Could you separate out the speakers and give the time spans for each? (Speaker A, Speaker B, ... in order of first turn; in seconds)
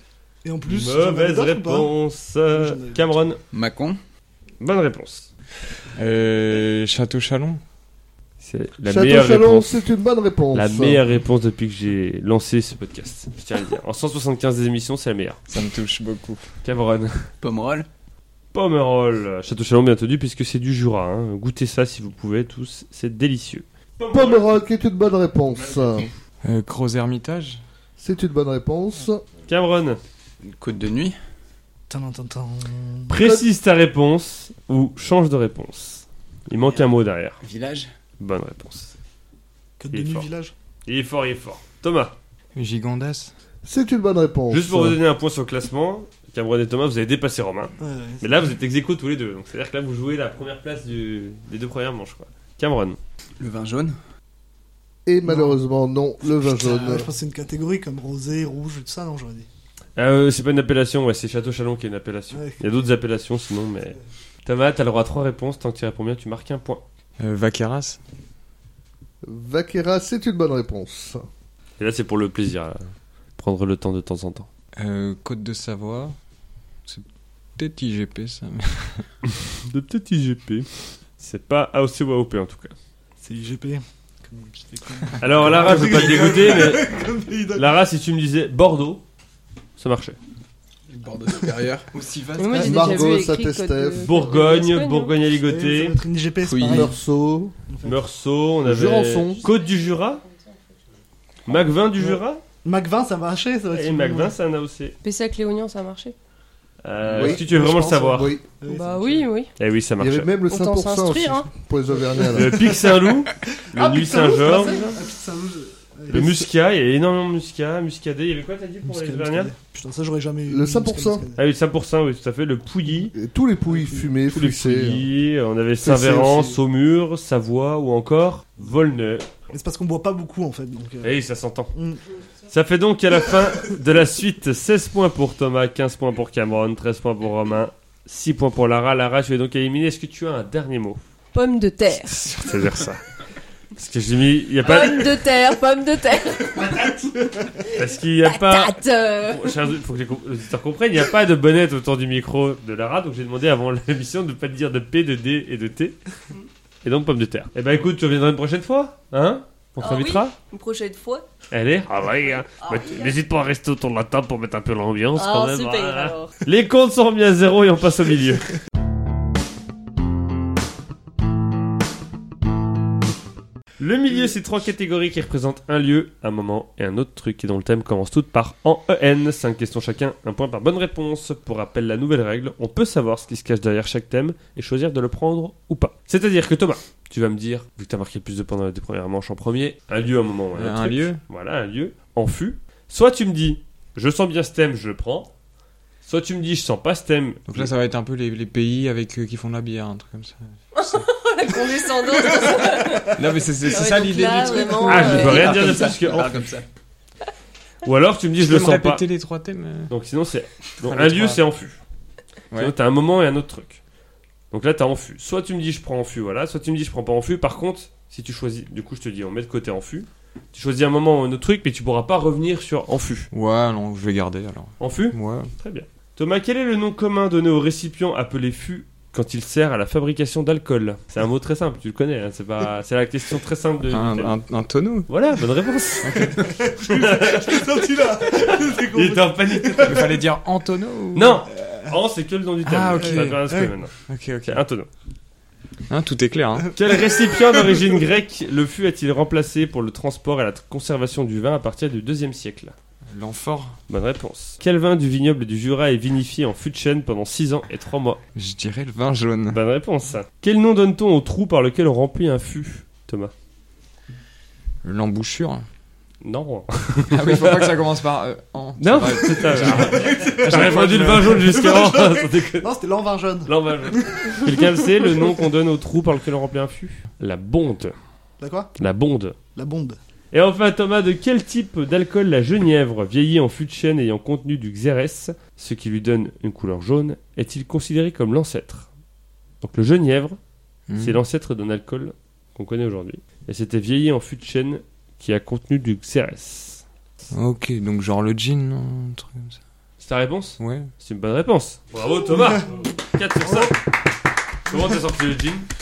Speaker A: 0.4-1.9, 2.5-3.0, 31.9-33.1, 39.8-40.5, 47.8-48.2, 55.2-55.6, 56.4-59.5, 62.3-62.6, 83.2-87.7, 95.4-96.9, 97.7-98.0, 102.6-104.3, 108.6-109.3, 112.3-112.7, 113.7-116.4, 118.8-121.4, 123.7-124.1, 129.5-131.1, 131.7-132.0, 202.5-202.8, 236.4-240.2, 241.6-241.9, 243.0-243.7, 269.6-274.6, 278.4-278.8, 279.6-280.0, 302.3-302.9, 303.4-303.7
Speaker B: 0.7-3.4, 4.6-5.3, 8.4-9.7, 10.5-15.4, 16.6-17.3, 18.5-24.6, 25.6-26.1, 29.5-30.0, 33.1-37.4, 38.2-38.9, 39.9-40.3, 40.9-42.1, 44.5-53.0, 60.0-66.8, 71.8-74.5, 79.3-82.7, 85.2-86.9, 87.5-89.0, 89.8-90.2, 94.0-96.0, 97.8-100.2, 101.5-102.4, 103.7-105.0, 106.8-108.4, 109.6-110.3, 112.3-115.0, 116.1-119.5, 121.4-123.1, 124.3-129.3, 131.0-131.7, 132.5-141.0, 142.1-143.0, 143.8-145.2, 147.7-156.0, 156.8-160.3, 161.5-168.5, 173.8-195.3, 196.1-197.7, 204.8-206.5, 207.8-209.1, 209.9-211.8, 212.6-213.8, 214.5-223.3, 224.8-234.4, 235.1-240.2, 241.1-243.9, 244.5-244.9, 246.8-252.7, 253.9-258.2, 259.5-263.3, 266.2-267.8, 268.8-272.7, 273.5-277.9, 278.8-279.4, 280.3-288.9, 289.6-290.4, 291.0-296.8, 300.0-303.8, 304.7-305.7
Speaker C: 3.5-4.0, 17.4-17.9, 30.4-31.2, 37.4-37.9, 53.4-54.0, 90.9-91.9, 96.4-96.9, 204.9-206.7
Speaker D: 6.0-7.6, 15.5-16.5, 26.4-27.6, 42.5-43.3, 67.2-68.0, 74.8-76.2, 76.9-79.1, 85.5-86.1, 91.9-93.0, 190.6-191.2, 197.5-200.4, 202.8-205.1, 208.4-209.9, 210.8-211.4, 223.3-225.5, 233.9-235.1, 236.0-236.5, 239.8-241.4, 242.6-243.5, 244.1-244.6, 245.9-246.8, 253.1-253.8, 258.4-259.6, 264.8-265.7, 267.1-271.6, 290.9-291.2, 297.3-299.6, 300.6-300.9
Speaker E: 8.9-11.0, 24.1-26.1, 28.0-29.2, 33.1-33.5, 43.6-45.0, 55.1-57.1, 69.2-71.3, 92.6-94.1, 96.7-97.5, 98.6-99.5, 107.1-108.5, 110.0-112.7, 120.5-121.2, 123.1-125.1, 125.8-126.6
Speaker F: 92.4-95.2, 105.0-106.2, 108.7-109.5, 110.5-111.5, 114.4-114.9, 141.3-142.3, 144.6-147.0, 147.7-149.7, 159.8-161.3, 162.6-163.2, 165.2-166.4, 200.8-205.7